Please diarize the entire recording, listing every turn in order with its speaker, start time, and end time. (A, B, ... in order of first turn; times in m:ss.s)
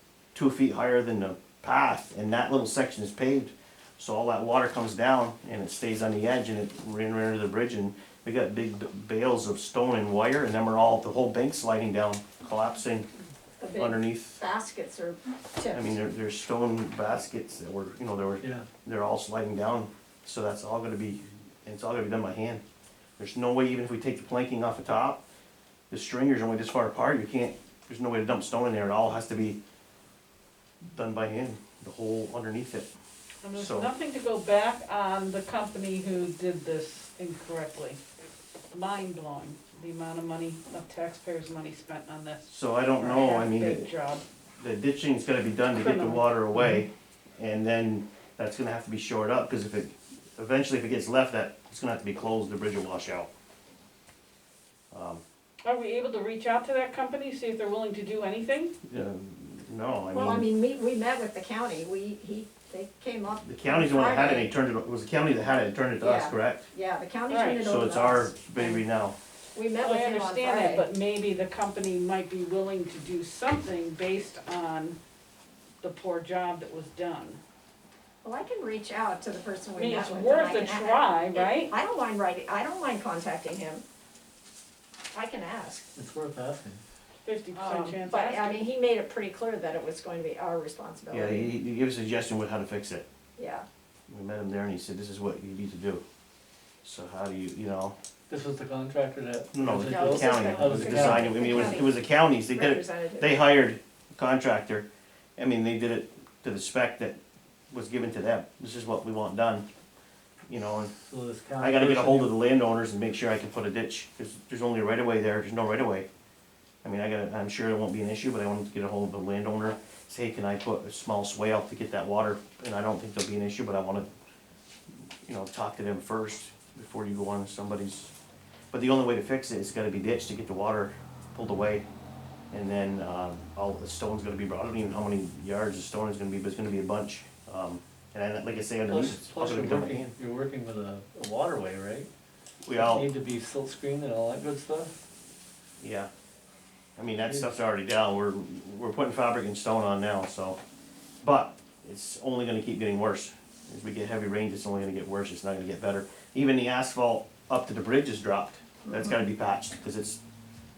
0:00.3-0:13.1 A
0:13.6-0:16.0 B
0:13.8-0:14.4 A
0:15.7-0:22.6 A
0:18.4-0:18.6 C
0:23.2-0:25.2 A
0:25.9-0:29.6 A
0:30.8-0:32.9 A
0:33.4-0:38.0 D
0:33.5-0:33.9 A
0:38.7-0:44.2 D
0:42.5-0:43.9 A
0:44.6-0:53.3 A
0:45.7-0:46.3 D
0:54.9-0:55.2 A
0:55.6-0:58.7 D
0:58.8-1:00.5 A
1:00.1-1:04.5 B
1:03.4-1:06.7 A
1:06.0-1:08.8 B
1:07.3-1:07.6 D
1:07.6-1:09.2 A
1:09.5-1:10.8 B
1:09.8-1:15.0 D
1:15.8-1:17.4 D
1:18.2-1:23.8 B
1:19.8-1:21.7 D
1:25.1-1:25.9 B
1:26.0-1:26.8 C
1:27.2-1:28.7 D
1:27.6-1:31.5 B
1:31.1-1:33.0 A
1:33.4-1:33.6 B
1:34.1-1:36.0 A
1:36.8-1:38.0 A
1:38.3-1:41.6 C
1:39.5-1:47.2 A
1:39.8-1:42.0 B
1:42.5-1:43.4 B
1:47.7-1:49.6 A
1:50.5-1:50.9 A
1:51.0-1:52.4 C
1:51.6-1:56.1 A
1:56.8-2:04.1 A
2:05.3-2:08.1 A
2:08.7-2:11.8 A
2:12.5-2:20.1 A
2:18.9-2:22.1 C
2:22.6-2:23.1 A
2:22.7-2:24.9 C
2:25.8-2:26.1 A
2:27.0-2:30.6 A
2:31.2-2:40.2 A